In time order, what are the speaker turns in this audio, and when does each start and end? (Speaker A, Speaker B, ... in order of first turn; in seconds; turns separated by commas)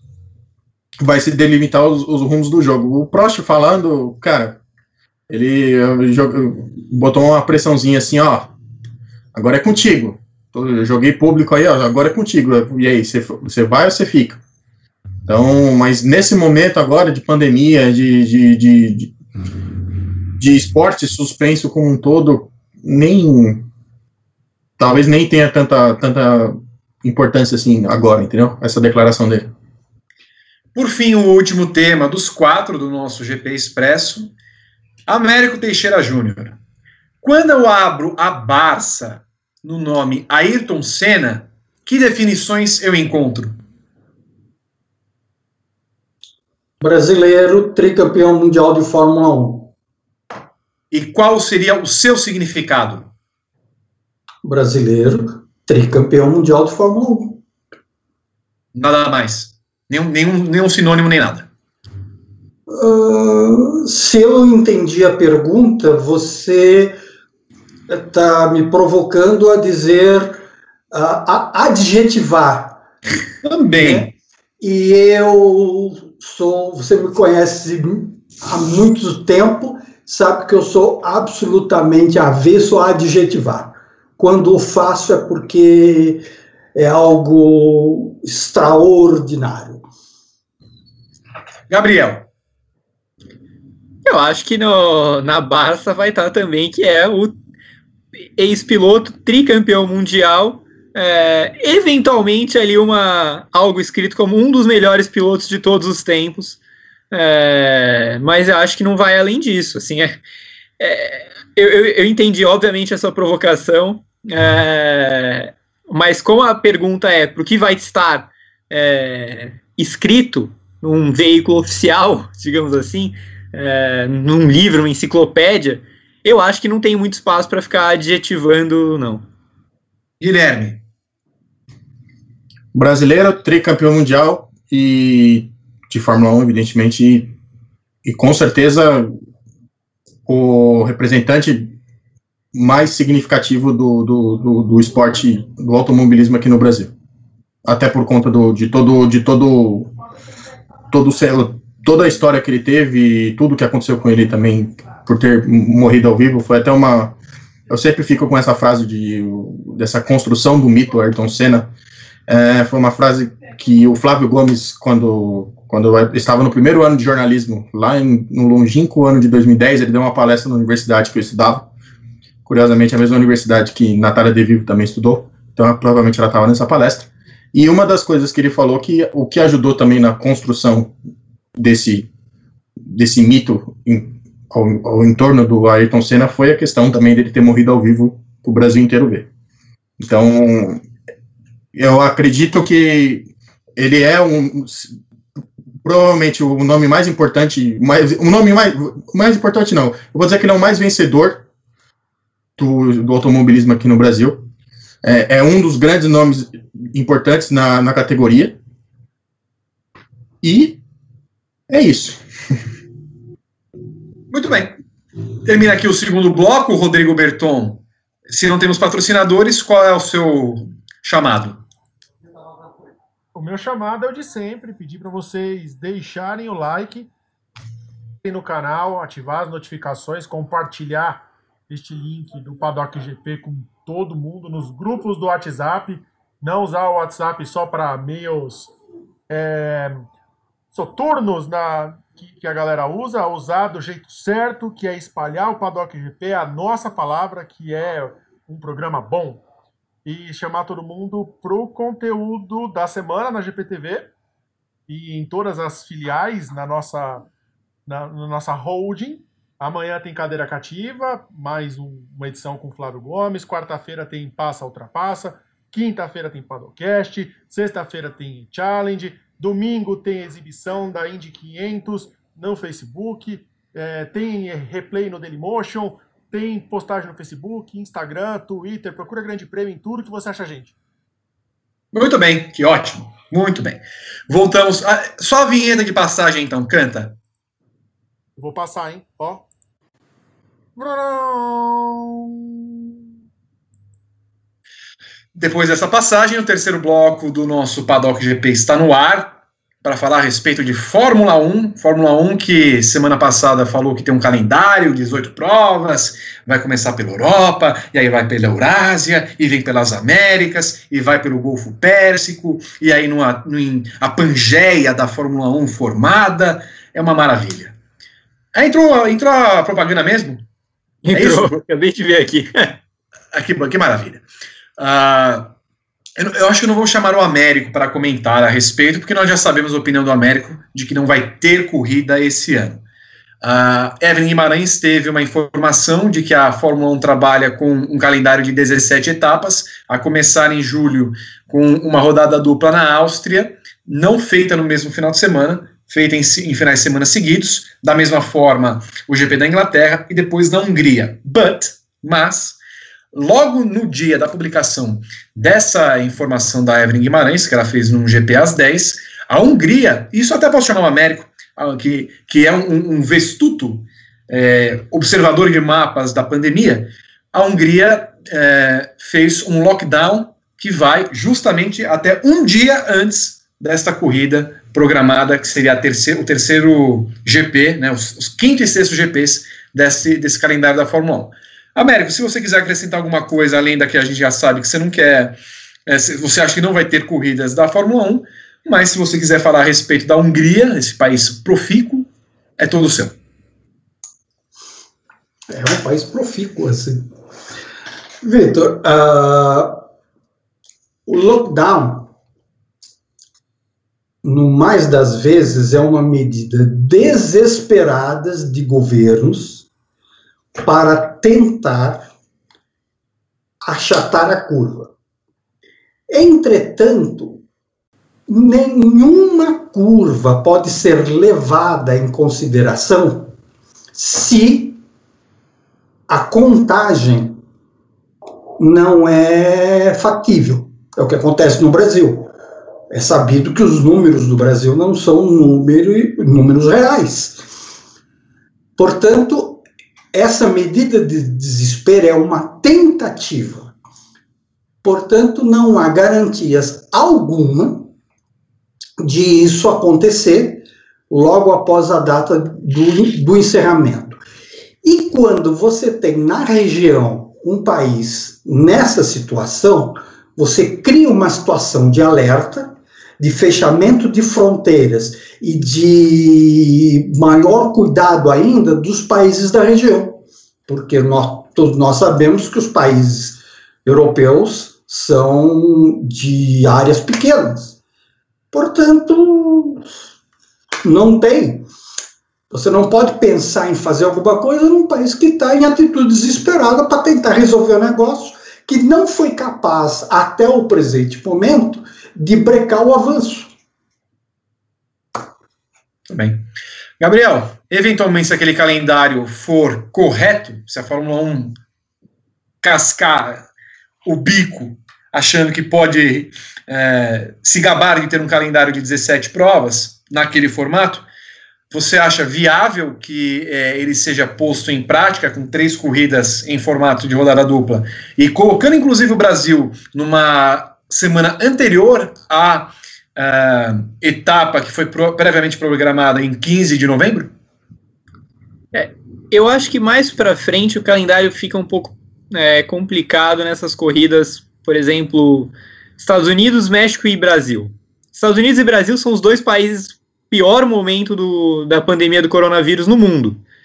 Speaker A: 1.0-4.6, Speaker A: 5.3-8.5, Speaker A: 9.3-14.4, Speaker A: 15.3-19.1, Speaker A: 20.4-23.7, Speaker A: 24.8-29.5, Speaker B: 30.7-34.3, Speaker B: 35.1-36.6, Speaker B: 37.2-43.6, Speaker C: 46.8-49.7, Speaker B: 50.9-53.1, Speaker C: 54.4-57.4, Speaker B: 58.7-61.5, Speaker C: 62.7-67.0, Speaker C: 67.9-72.8, Speaker B: 73.4-74.1, Speaker C: 73.8-74.1, Speaker C: 74.6-89.8, Speaker B: 91.7-92.3, Speaker D: 94.0-97.3, Speaker D: 98.4-106.6, Speaker D: 107.1-110.2, Speaker D: 110.8-129.3, Speaker B: 130.2-130.8, Speaker A: 132.7-137.3, Speaker A: 138.1-139.1, Speaker A: 140.3-141.7, Speaker A: 142.5-146.9, Speaker A: 147.7-149.9, Speaker A: 150.9-157.1, Speaker A: 157.7-161.7, Speaker A: 162.3-171.7, Speaker A: 172.4-180.9, Speaker A: 181.6-182.1, Speaker A: 182.9-189.3, Speaker A: 190.0-190.8, Speaker A: 191.7-193.3, Speaker A: 193.8-194.9, Speaker A: 195.8-201.4, Speaker A: 202.6-204.4, Speaker A: 205.0-208.6, Speaker A: 210.4-210.8, Speaker A: 211.7-212.2, Speaker B: 214.3-214.8, Speaker B: 215.4-221.6, Speaker E: 223.3-227.1, Speaker E: 228.2-238.7, Speaker E: 239.3-240.1, Speaker E: 240.7-249.4, Speaker E: 250.1-254.1, Speaker E: 254.9-257.3, Speaker E: 257.9-280.7, Speaker B: 281.9-287.2, Speaker E: 288.4-289.4, Speaker E: 290.7-292.7, Speaker B: 295.3-317.7, Speaker B: 318.6-320.4, Speaker D: 321.1-322.8, Speaker B: 321.1-321.6, Speaker B: 323.3-324.2, Speaker B: 324.8-325.5, Speaker B: 326.2-332.8, Speaker B: 333.4-352.6, Speaker B: 353.1-393.1, Speaker C: 395.5-397.1, Speaker C: 398.2-399.8, Speaker C: 401.1-402.1, Speaker C: 404.2-409.6, Speaker C: 410.6-412.1, Speaker C: 413.6-414.9, Speaker C: 416.1-417.4, Speaker C: 418.3-423.3, Speaker C: 423.9-424.8, Speaker C: 426.1-427.4, Speaker C: 428.6-432.3, Speaker C: 432.9-437.4, Speaker C: 438.8-443.7, Speaker C: 444.8-447.9, Speaker C: 449.0-454.2, Speaker C: 454.8-477.7, Speaker C: 478.5-479.8, Speaker C: 480.8-481.7, Speaker C: 482.5-493.5, Speaker B: 496.1-496.4, Speaker B: 497.0-501.6, Speaker B: 502.6-503.4, Speaker B: 504.1-511.1, Speaker B: 511.7-527.3, Speaker D: 528.7-543.4